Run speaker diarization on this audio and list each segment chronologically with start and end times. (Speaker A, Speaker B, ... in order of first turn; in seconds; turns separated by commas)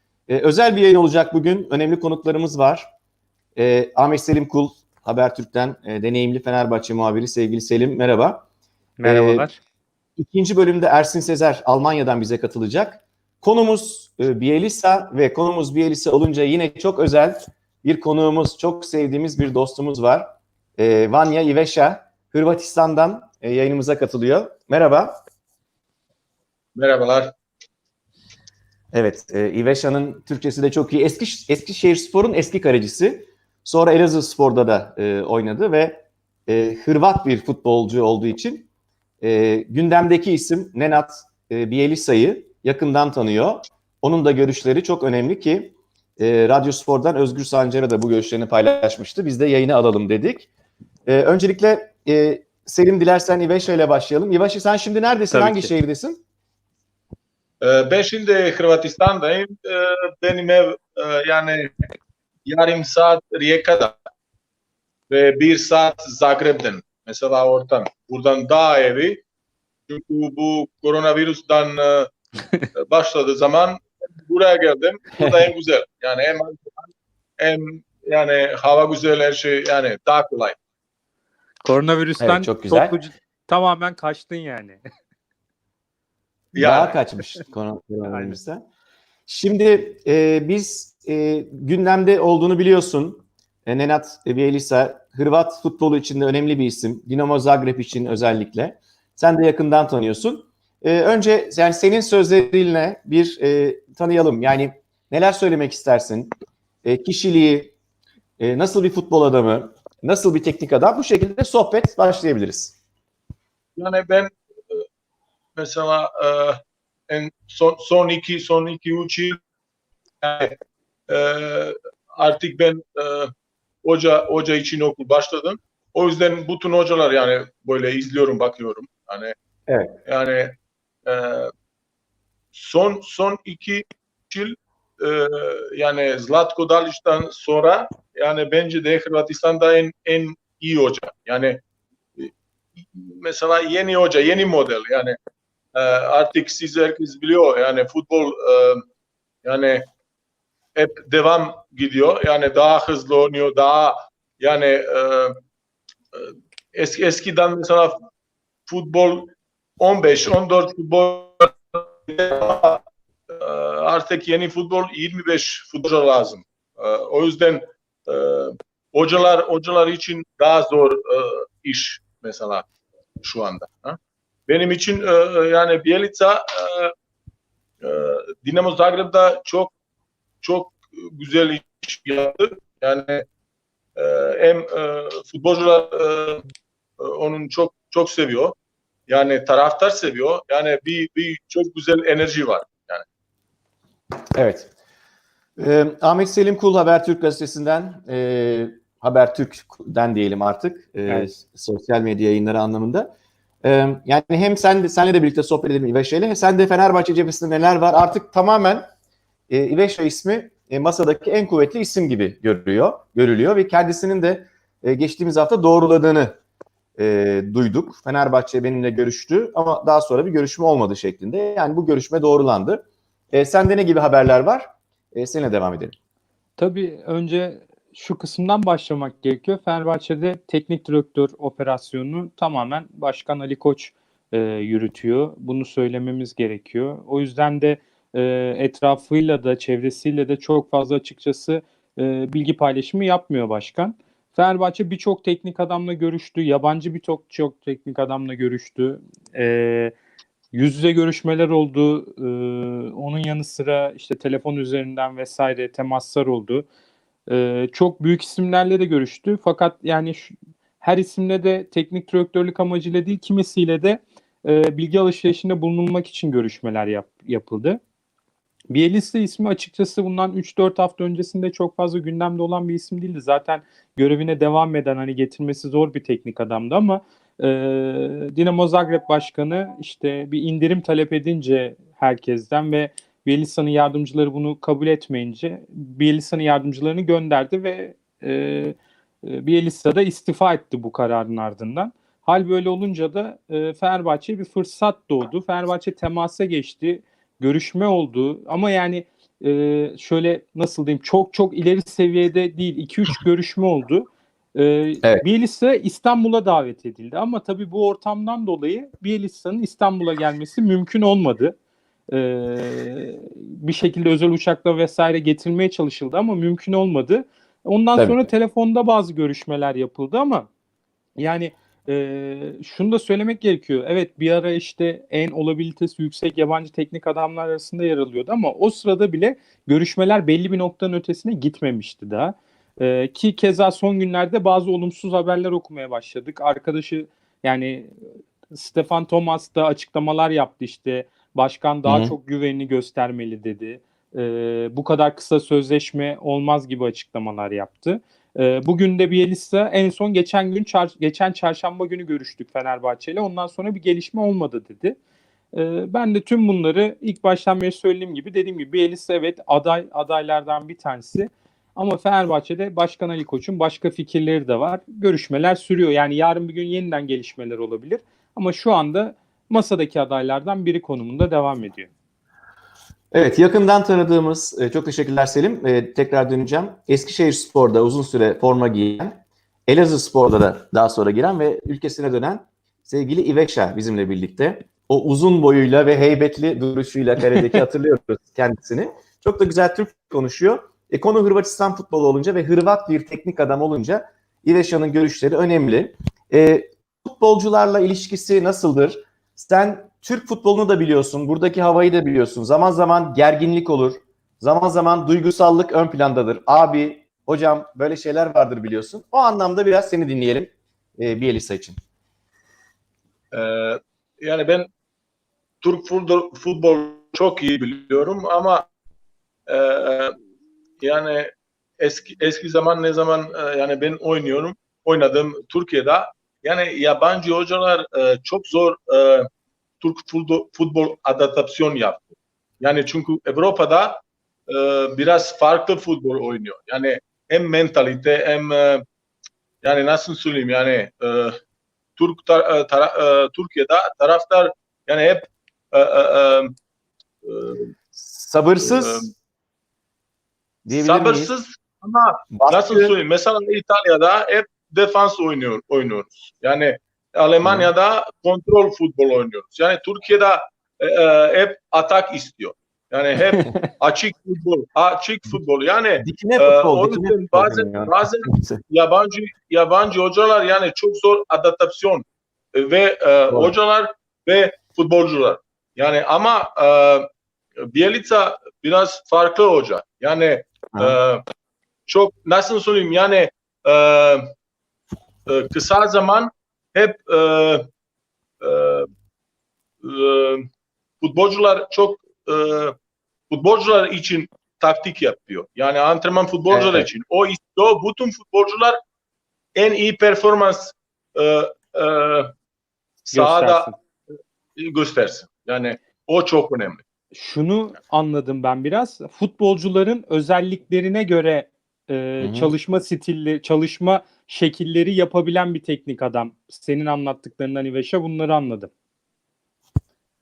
Speaker A: 0.3-2.9, Speaker A: 3.5-8.4, Speaker B: 9.0-9.6, Speaker A: 9.0-9.5, Speaker A: 10.2-25.1, Speaker C: 26.8-27.3, Speaker A: 28.9-38.7, Speaker A: 39.2-50.5, Speaker A: 51.0-56.2, Speaker B: 55.3-55.7, Speaker C: 57.6-61.7, Speaker C: 62.5-64.0, Speaker C: 65.1-69.2, Speaker C: 69.9-72.1, Speaker C: 72.7-76.7, Speaker A: 75.2-75.5, Speaker C: 77.4-80.6, Speaker B: 81.6-84.8, Speaker A: 82.2-83.0, Speaker C: 86.5-87.0, Speaker A: 86.5-88.6, Speaker B: 88.1-88.4, Speaker A: 89.3-107.7, Speaker A: 108.4-112.8, Speaker C: 113.8-114.8, Speaker C: 115.6-119.4, Speaker C: 120.2-120.5, Speaker C: 121.1-123.3, Speaker C: 123.8-129.3, Speaker A: 129.7-130.0, Speaker C: 130.1-131.5, Speaker C: 132.5-141.6, Speaker C: 142.2-145.2, Speaker C: 145.7-148.8, Speaker C: 149.4-149.9, Speaker C: 150.8-155.4, Speaker C: 156.1-158.0, Speaker C: 158.7-172.7, Speaker C: 173.2-176.9, Speaker C: 177.8-179.7, Speaker C: 180.4-183.2, Speaker C: 183.9-186.4, Speaker C: 187.0-188.5, Speaker C: 189.1-193.0, Speaker A: 194.3-194.7, Speaker A: 195.6-203.1, Speaker A: 203.6-208.8, Speaker A: 209.5-216.4, Speaker A: 217.0-225.9, Speaker B: 226.6-249.9, Speaker B: 250.5-256.6, Speaker B: 257.3-267.8, Speaker B: 268.7-311.6, Speaker B: 312.1-320.5, Speaker A: 317.9-318.3, Speaker B: 321.2-338.0, Speaker B: 338.5-355.0, Speaker A: 341.9-342.1, Speaker B: 355.5-371.9, Speaker A: 373.1-411.8, Speaker C: 413.3-414.7, Speaker C: 415.6-418.7, Speaker C: 419.5-420.1, Speaker C: 420.8-429.3, Speaker C: 429.8-438.8, Speaker C: 439.6-441.4, Speaker C: 442.0-446.5, Speaker C: 447.2-447.7, Speaker A: 447.9-449.1, Speaker C: 448.6-449.1, Speaker A: 450.6-451.3, Speaker C: 450.7-477.1, Speaker A: 452.3-452.9, Speaker A: 457.4-457.7, Speaker A: 466.0-468.6, Speaker A: 473.3-473.5, Speaker C: 477.6-481.2, Speaker C: 481.9-484.3, Speaker C: 485.3-487.7, Speaker C: 488.4-488.9, Speaker C: 489.8-490.5, Speaker C: 491.0-492.7, Speaker C: 493.3-498.8, Speaker A: 496.5-496.9, Speaker C: 499.5-502.3, Speaker C: 503.1-503.7, Speaker B: 503.1-503.8, Speaker C: 504.6-506.8, Speaker B: 507.1-518.7, Speaker A: 512.2-512.5